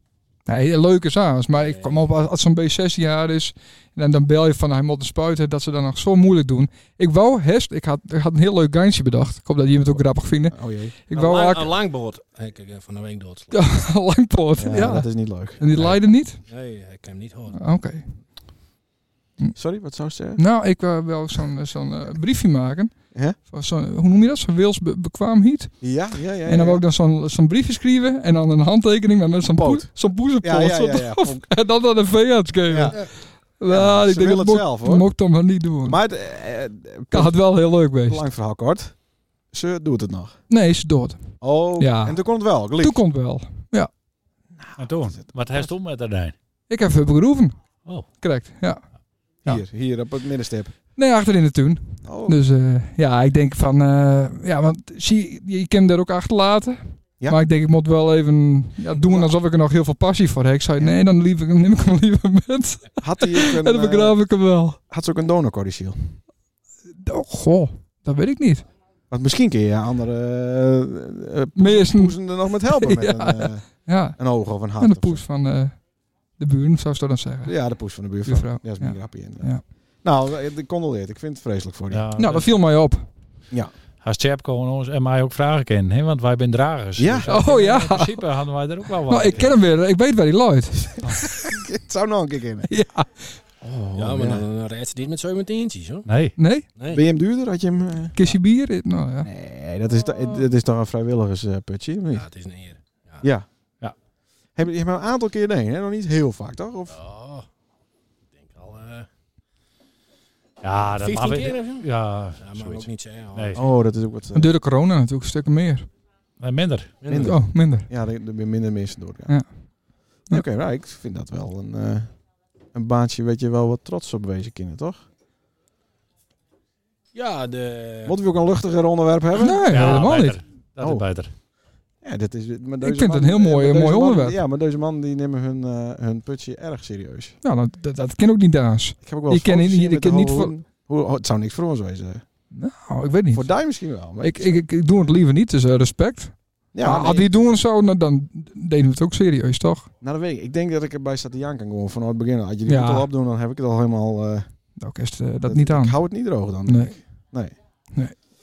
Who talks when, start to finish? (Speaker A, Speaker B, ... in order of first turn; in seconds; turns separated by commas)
Speaker A: 0.5-11.8, Speaker B: 1.6-2.0, Speaker C: 10.5-10.9, Speaker B: 11.1-13.6, Speaker A: 13.5-16.4, Speaker C: 14.6-15.9, Speaker B: 15.8-17.6, Speaker A: 17.5-18.1, Speaker C: 19.5-20.4, Speaker A: 20.4-25.8, Speaker C: 25.8-26.8, Speaker A: 26.5-36.0, Speaker C: 29.5-31.5, Speaker C: 32.7-33.0, Speaker C: 33.7-35.1, Speaker C: 35.9-37.4, Speaker A: 37.1-38.2, Speaker C: 38.0-39.0, Speaker C: 39.5-40.4, Speaker A: 40.5-42.2, Speaker C: 41.4-43.0, Speaker A: 42.8-43.9, Speaker C: 44.6-45.7, Speaker D: 44.8-46.3, Speaker A: 46.7-47.5, Speaker A: 48.2-48.8, Speaker C: 49.4-50.7, Speaker A: 51.0-64.8, Speaker C: 52.0-52.4, Speaker C: 58.9-59.3, Speaker C: 63.0-64.2, Speaker C: 64.9-66.2, Speaker A: 67.0-68.7, Speaker C: 69.1-75.2, Speaker A: 71.6-72.2, Speaker A: 72.7-74.2, Speaker A: 74.8-75.8, Speaker A: 76.4-77.5, Speaker C: 77.5-79.5, Speaker A: 78.2-79.6, Speaker C: 80.0-82.0, Speaker D: 81.9-82.5, Speaker A: 82.2-83.1, Speaker D: 84.0-89.5, Speaker C: 87.0-87.3, Speaker A: 87.3-88.2, Speaker A: 89.1-91.5, Speaker C: 91.1-92.7, Speaker A: 92.7-93.3, Speaker C: 93.6-94.5, Speaker B: 93.9-96.1, Speaker D: 96.1-96.3, Speaker A: 96.4-96.7, Speaker B: 96.8-97.0, Speaker C: 96.9-98.3, Speaker A: 98.1-99.3, Speaker C: 99.2-102.3, Speaker B: 102.1-103.2, Speaker C: 104.6-107.0, Speaker B: 106.9-107.5, Speaker B: 108.4-109.1, Speaker D: 110.6-113.6, Speaker B: 111.0-111.9, Speaker B: 112.4-113.6, Speaker C: 113.5-114.5, Speaker A: 114.3-115.9, Speaker D: 116.4-116.9, Speaker B: 117.0-117.3, Speaker C: 117.1-119.3, Speaker A: 117.2-117.9, Speaker C: 120.3-122.1, Speaker C: 122.7-125.0, Speaker B: 127.1-128.2, Speaker C: 128.1-130.1, Speaker A: 129.4-130.4, Speaker D: 129.7-131.3, Speaker C: 130.8-131.1, Speaker C: 132.0-137.4, Speaker A: 132.8-134.4, Speaker A: 137.4-140.5, Speaker C: 139.0-142.2, Speaker A: 142.5-143.5, Speaker C: 143.3-144.6, Speaker A: 144.2-149.9, Speaker C: 146.7-147.3, Speaker C: 150.0-154.5, Speaker A: 152.7-153.1, Speaker A: 154.8-156.0, Speaker C: 155.5-157.5, Speaker A: 156.7-156.9